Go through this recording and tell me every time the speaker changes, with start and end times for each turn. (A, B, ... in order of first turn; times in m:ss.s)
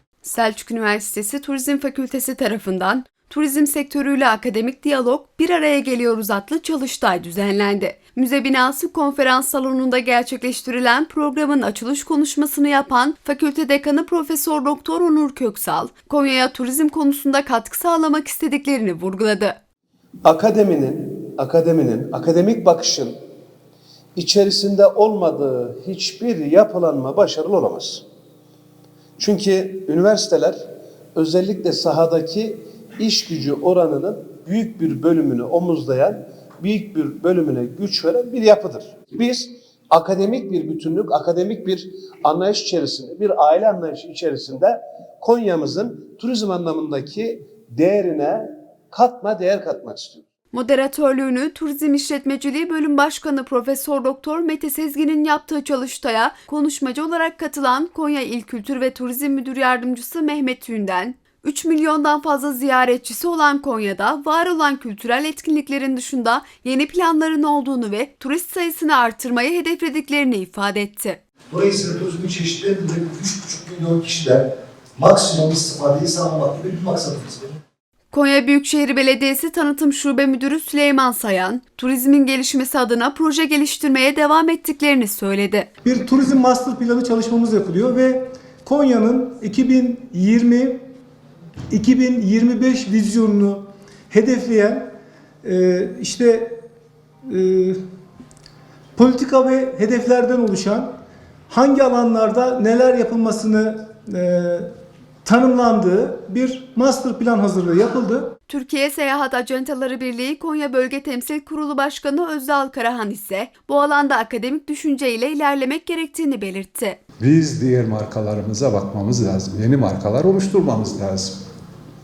0:00.2-0:19.6 A
0:20.3-0:23.1 B
0:24.2-0:28.0 B
0:29.2-0:30.6 B
0:31.2-0:50.2 B
0:50.5-1:11.2 A
1:11.5-1:14.4 C
1:15.0-1:17.6 C
1:18.1-1:25.7 A
1:25.8-1:30.8 D
1:31.7-1:34.9 D
1:35.4-1:36.6 D
1:37.3-1:37.8 D
1:39.0-1:40.9 D
1:41.5-1:44.7 D
1:45.2-1:48.3 D
1:48.5-1:57.0 A
1:57.2-2:01.3 E